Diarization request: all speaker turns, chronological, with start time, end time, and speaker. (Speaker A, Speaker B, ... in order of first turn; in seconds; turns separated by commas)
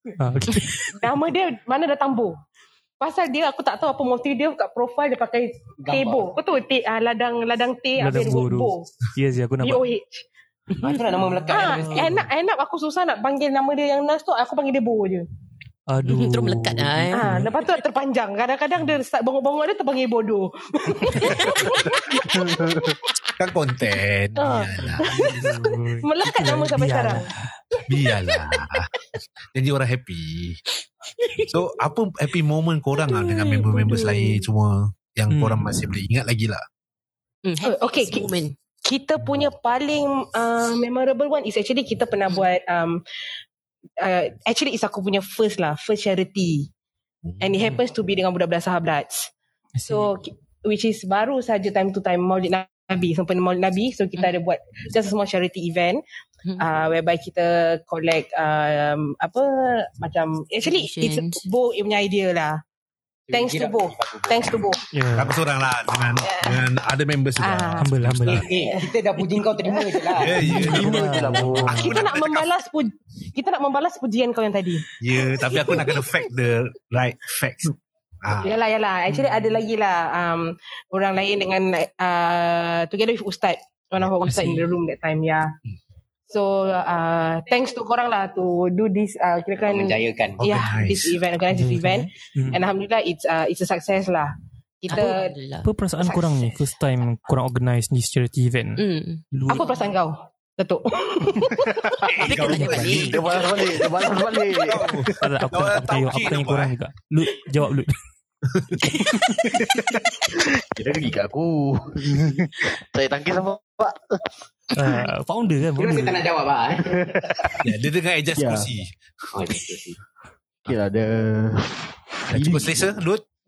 Speaker A: 0.2-0.9, Speaker B: 0.9-2.4, Speaker B: 3.0-8.9, Speaker C: 5.8-6.3, Speaker A: 8.0-9.8, Speaker B: 9.6-10.2, Speaker C: 10.8-12.2, Speaker A: 11.5-12.2, Speaker B: 11.5-15.2, Speaker A: 15.9-17.5, Speaker D: 16.0-17.2, Speaker B: 17.1-22.2, Speaker D: 21.1-21.5, Speaker E: 21.6-21.9, Speaker F: 22.4-22.9, Speaker E: 23.4-25.5, Speaker B: 24.4-27.3, Speaker A: 24.8-27.6, Speaker E: 27.9-28.9, Speaker E: 29.5-30.6, Speaker D: 31.2-31.5, Speaker E: 31.5-36.6, Speaker D: 33.0-34.1, Speaker A: 35.3-35.9, Speaker D: 37.4-38.5, Speaker B: 37.6-38.3, Speaker B: 38.8-43.0, Speaker B: 44.0-46.7, Speaker B: 47.4-49.3, Speaker A: 49.7-50.2, Speaker B: 49.9-56.0, Speaker B: 56.6-62.6, Speaker D: 60.6-61.4, Speaker C: 63.3-64.7, Speaker B: 63.3-64.8, Speaker A: 64.9-65.3, Speaker E: 65.1-68.5, Speaker B: 66.2-66.7, Speaker B: 67.4-67.9, Speaker A: 67.8-68.5, Speaker C: 68.3-70.4, Speaker E: 70.2-72.5, Speaker A: 70.4-72.0, Speaker F: 70.4-71.8, Speaker B: 71.7-74.9, Speaker E: 75.0-78.5, Speaker B: 75.4-76.0, Speaker B: 78.4-85.5, Speaker A: 79.1-79.5, Speaker A: 84.2-84.7, Speaker B: 86.3-95.3, Speaker C: 89.5-90.4, Speaker E: 90.4-91.2, Speaker A: 91.5-92.6, Speaker D: 94.9-95.7, Speaker A: 94.9-99.7, Speaker B: 96.0-96.6, Speaker D: 98.8-99.7, Speaker B: 99.5-101.8, Speaker E: 102.0-103.3, Speaker D: 102.2-103.2, Speaker A: 102.4-103.1, Speaker F: 103.0-105.2, Speaker E: 104.7-106.7, Speaker A: 105.2-108.0, Speaker F: 110.3-114.3, Speaker A: 114.8-116.2, Speaker C: 115.7-117.0, Speaker F: 116.8-117.6, Speaker E: 117.6-118.9, Speaker F: 118.3-118.7, Speaker C: 119.3-120.0, Speaker F: 120.6-122.9, Speaker E: 122.3-123.2